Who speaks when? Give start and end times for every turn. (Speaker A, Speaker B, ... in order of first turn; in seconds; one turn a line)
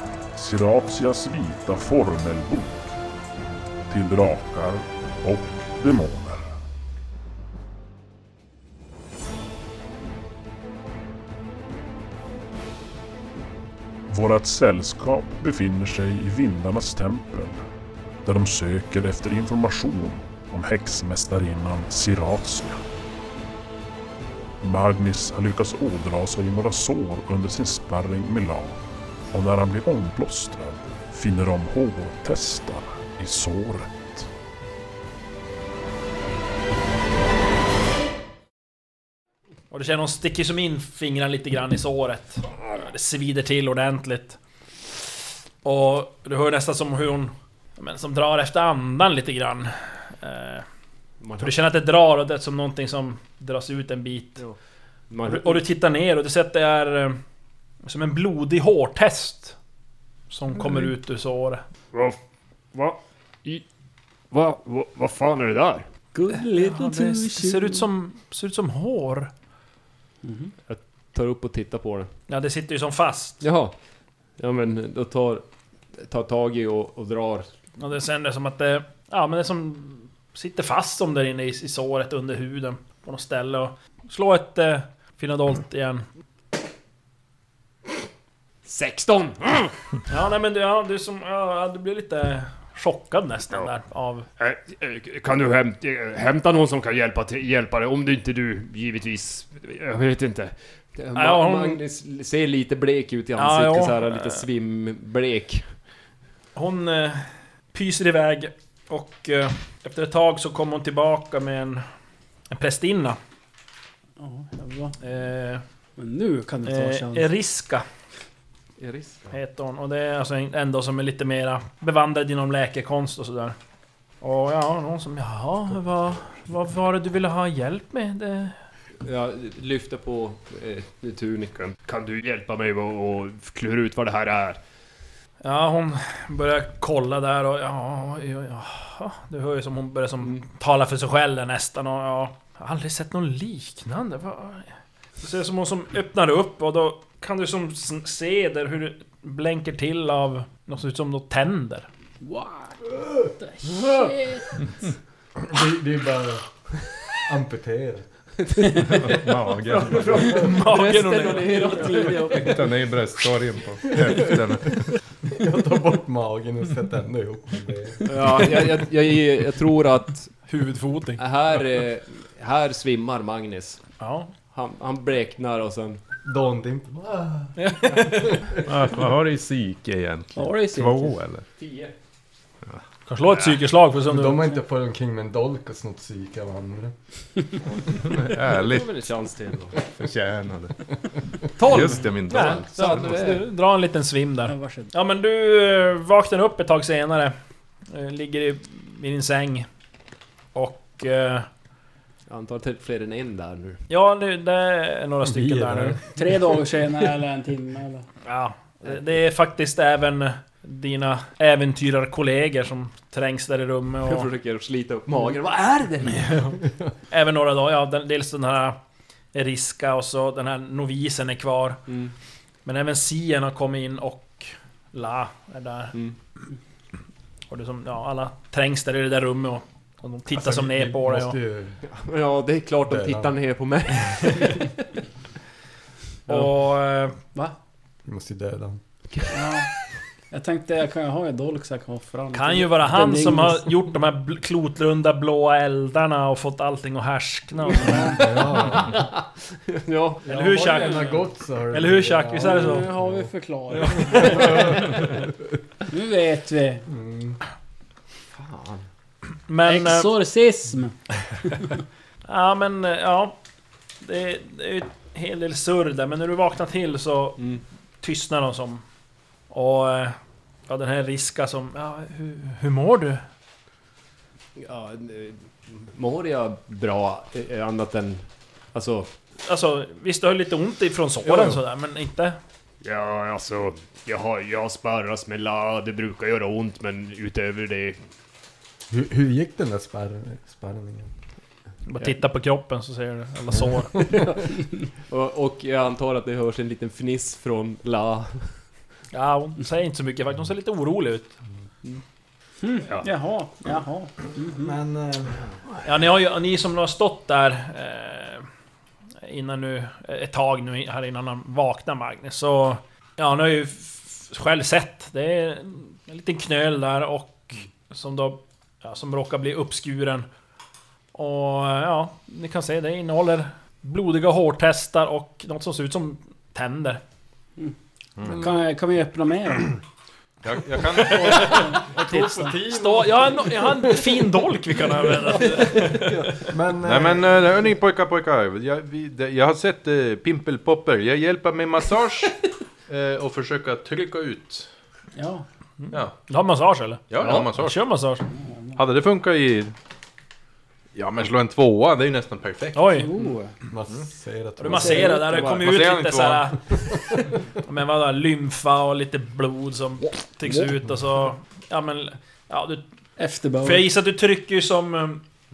Speaker A: 0.3-3.0
Speaker A: 3.9-6.6
Speaker A: 14.1-17.7
Speaker A: 18.2-22.8
Speaker A: 24.6-28.8
Speaker A: 29.3-34.3
Speaker B: 39.7-44.4
Speaker B: 45.6-50.7
Speaker C: 51.2-51.5
Speaker B: 51.4-54.5
Speaker C: 55.1-55.6
Speaker B: 55.2-57.2
Speaker B: 57.8-59.6
Speaker B: 60.3-61.6
Speaker C: 61.9-62.2
Speaker C: 62.7-63.6
Speaker C: 64.3-65.8
Speaker D: 66.1-67.8
Speaker B: 66.3-69.3
Speaker D: 70.2-70.5
Speaker C: 70.7-72.1
Speaker B: 72.3-73.4
Speaker C: 73.4-73.7
Speaker C: 74.4-77.5
Speaker B: 77.8-86.0
Speaker C: 88.7-89.7
Speaker B: 90.1-94.3
Speaker C: 94.4-105.8
Speaker B: 101.2-101.8
Speaker B: 103.4-104.5
Speaker B: 106.5-111.8
Speaker B: 112.5-113.2
Speaker D: 114.2-115.0
Speaker B: 115.0-115.6
Speaker D: 116.0-117.3
Speaker B: 116.7-117.8
Speaker C: 118.8-119.4
Speaker B: 119.3-123.6
Speaker B: 124.2-128.6
Speaker C: 129.0-134.6
Speaker B: 135.4-151.9
Speaker D: 152.2-154.6
Speaker E: 155.4-156.5
Speaker E: 157.1-158.1
Speaker C: 158.4-162.3
Speaker F: 158.7-160.5
Speaker E: 160.0-160.4
Speaker B: 160.2-161.7
Speaker D: 160.3-162.8
Speaker F: 162.3-164.9
Speaker E: 163.9-164.4
Speaker E: 165.3-168.7
Speaker C: 168.1-170.4
Speaker B: 170.5-171.2
Speaker C: 171.2-173.8
Speaker B: 174.0-174.3
Speaker C: 174.5-176.0
Speaker E: 176.2-178.6
Speaker B: 177.6-178.3
Speaker F: 178.7-181.4
Speaker D: 180.4-181.2
Speaker C: 181.6-181.9
Speaker B: 183.1-184.4
Speaker E: 184.1-186.9
Speaker F: 188.1-188.9
Speaker C: 188.3-189.8
Speaker F: 189.8-193.4
Speaker C: 191.6-193.5
Speaker B: 192.3-197.3
Speaker D: 194.5-194.9
Speaker B: 197.9-199.7
Speaker B: 200.5-201.5
Speaker C: 202.3-203.8
Speaker B: 203.9-206.0
Speaker E: 205.2-206.3
Speaker D: 206.2-208.1
Speaker B: 208.2-214.3
Speaker C: 214.0-216.6
Speaker B: 217.1-218.8
Speaker B: 219.3-221.8
Speaker C: 221.9-222.1
Speaker B: 222.7-226.0
Speaker B: 227.5-231.4
Speaker E: 230.3-231.8
Speaker C: 231.9-234.8
Speaker E: 232.9-233.3
Speaker B: 236.3-237.2
Speaker E: 238.1-238.8
Speaker C: 239.1-239.4
Speaker D: 239.3-239.7
Speaker D: 240.3-243.8
Speaker B: 242.3-248.4
Speaker D: 247.7-248.3
Speaker E: 247.9-248.9
Speaker C: 248.7-250.2
Speaker B: 250.3-252.9
Speaker E: 250.3-253.3
Speaker D: 250.6-251.1
Speaker D: 252.4-255.0
Speaker B: 253.7-254.8
Speaker E: 253.8-255.2
Speaker D: 255.9-256.9
Speaker E: 256.9-257.4
Speaker C: 258.3-258.9
Speaker B: 259.5-260.1
Speaker D: 259.7-261.8
Speaker B: 262.2-263.4
Speaker B: 264.0-267.4
Speaker C: 267.4-267.6
Speaker B: 268.0-268.8
Speaker B: 269.5-270.2
Speaker B: 270.7-273.2
Speaker C: 274.6-279.1
Speaker B: 279.4-282.4
Speaker C: 281.3-281.6
Speaker C: 282.8-288.0
Speaker E: 288.9-291.1
Speaker B: 291.9-293.9
Speaker C: 294.0-294.5
Speaker E: 294.0-294.3
Speaker C: 295.1-298.6
Speaker B: 299.1-301.4
Speaker D: 302.6-304.8
Speaker E: 304.5-305.4
Speaker B: 305.9-308.5
Speaker B: 309.2-320.3
Speaker B: 321.1-327.0
Speaker G: 328.2-328.5
Speaker D: 328.3-329.8
Speaker G: 330.4-331.8
Speaker B: 331.0-336.5
Speaker D: 331.3-332.5
Speaker E: 331.8-334.0
Speaker E: 335.8-337.3
Speaker G: 336.8-342.3
Speaker G: 342.9-344.7
Speaker D: 345.2-345.4
Speaker B: 345.8-348.2
Speaker G: 347.1-347.8
Speaker C: 347.2-347.5
Speaker D: 348.5-348.8
Speaker G: 348.8-349.7
Speaker G: 350.9-353.3
Speaker B: 352.8-353.1
Speaker D: 352.9-353.5
Speaker E: 353.7-355.2
Speaker B: 354.6-356.9
Speaker D: 354.7-355.6
Speaker G: 355.2-356.8
Speaker B: 357.6-362.9
Speaker D: 363.2-363.9
Speaker B: 363.6-365.2